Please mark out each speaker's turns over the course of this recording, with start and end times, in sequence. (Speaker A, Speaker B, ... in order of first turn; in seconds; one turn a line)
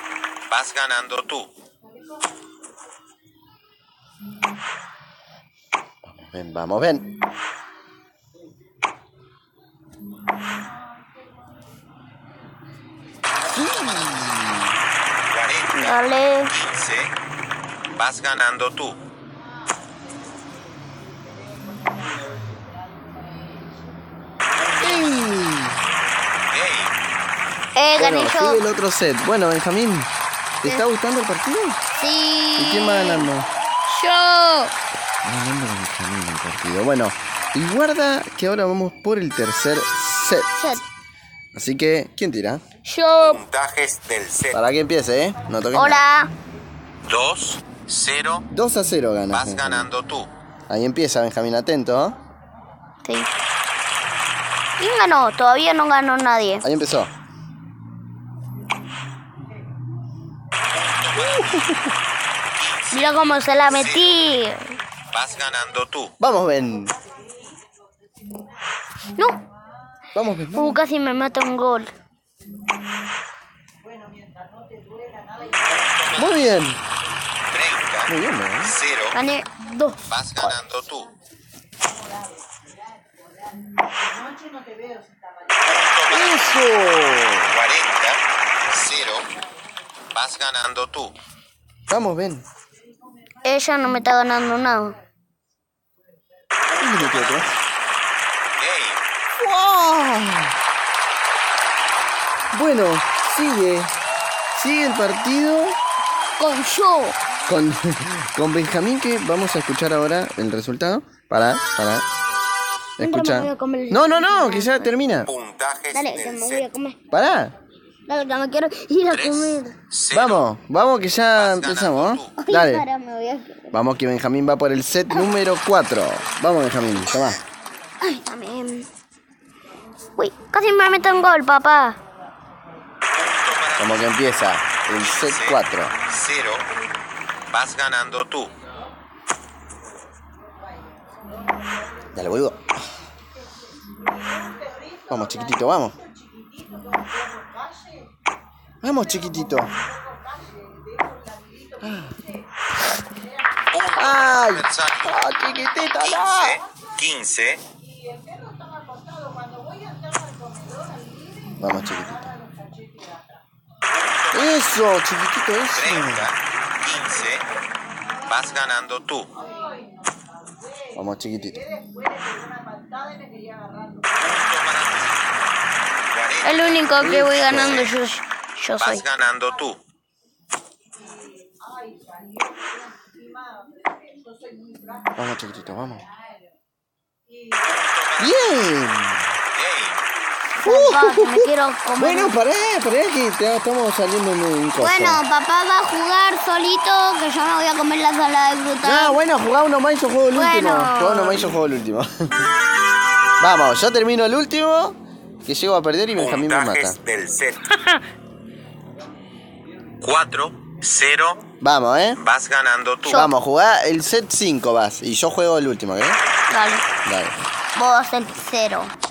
Speaker A: 0.5-1.5
Speaker B: 6.0-7.1
Speaker B: 13.4-14.7
Speaker A: 15.3-17.1
Speaker C: 15.7-16.5
Speaker A: 17.9-19.0
Speaker B: 24.9-25.6
Speaker A: 26.5-26.9
Speaker C: 27.7-28.6
Speaker B: 28.0-30.1
Speaker B: 30.6-31.8
Speaker C: 31.9-33.2
Speaker B: 32.5-33.5
Speaker C: 33.9-34.7
Speaker B: 35.2-40.5
Speaker C: 40.6-40.8
Speaker B: 41.5-42.6
Speaker C: 42.8-43.4
Speaker A: 43.2-44.5
Speaker B: 44.5-46.0
Speaker C: 45.7-46.3
Speaker A: 47.1-48.4
Speaker B: 48.5-49.9
Speaker A: 49.3-50.3
Speaker B: 50.7-52.2
Speaker C: 54.8-56.6
Speaker B: 56.6-57.1
Speaker A: 60.7-61.9
Speaker B: 61.1-61.9
Speaker A: 62.5-64.2
Speaker C: 62.9-64.7
Speaker A: 65.1-66.1
Speaker B: 66.2-66.9
Speaker B: 70.1-70.8
Speaker C: 70.5-71.9
Speaker A: 75.7-76.6
Speaker B: 76.1-76.8
Speaker A: 77.5-78.1
Speaker B: 78.0-78.7
Speaker A: 78.6-79.2
Speaker C: 79.1-80.0
Speaker A: 80.1-81.1
Speaker A: 85.6-86.5
Speaker B: 86.1-87.5
Speaker A: 87.5-89.3
Speaker A: 90.1-91.1
Speaker B: 91.9-92.4
Speaker C: 93.4-95.0
Speaker B: 96.8-97.5
Speaker A: 97.0-97.6
Speaker A: 98.6-99.0
Speaker B: 99.4-100.5
Speaker B: 102.5-103.9
Speaker B: 104.5-105.8
Speaker C: 106.4-107.2
Speaker B: 107.5-112.0
Speaker B: 113.0-115.3
Speaker C: 113.0-114.9
Speaker A: 115.3-116.7
Speaker C: 115.9-117.0
Speaker B: 117.1-117.5
Speaker C: 118.1-119.7
Speaker A: 119.1-120.4
Speaker B: 120.1-122.8
Speaker A: 121.3-122.3
Speaker C: 122.4-123.7
Speaker B: 123.7-127.4
Speaker C: 128.0-128.9
Speaker C: 130.2-132.0
Speaker A: 133.1-134.3
Speaker B: 133.8-135.9
Speaker A: 135.0-136.7
Speaker A: 137.5-138.5
Speaker B: 142.1-142.7
Speaker B: 145.1-146.0
Speaker B: 148.8-149.7
Speaker B: 151.8-152.1
Speaker A: 153.7-155.3
Speaker B: 153.9-156.6
Speaker A: 156.0-157.6
Speaker B: 161.6-162.3
Speaker A: 163.9-164.8
Speaker B: 164.3-166.3
Speaker A: 165.7-167.5
Speaker A: 168.2-169.3
Speaker B: 170.9-171.6
Speaker A: 174.2-175.2
Speaker A: 176.1-177.9
Speaker C: 176.4-179.0
Speaker B: 177.0-177.9
Speaker A: 178.8-179.8
Speaker B: 185.2-186.0
Speaker A: 187.6-188.4
Speaker B: 188.2-189.3
Speaker A: 189.5-190.0
Speaker C: 190.6-192.3
Speaker B: 190.6-195.2
Speaker C: 194.8-199.2
Speaker B: 198.8-202.3
Speaker C: 200.3-201.5
Speaker B: 203.4-207.0
Speaker A: 206.2-207.7
Speaker A: 210.0-211.4
Speaker B: 211.6-212.2
Speaker A: 212.2-213.3
Speaker B: 213.1-216.2
Speaker C: 216.5-216.8
Speaker B: 217.0-217.3
Speaker C: 217.7-218.9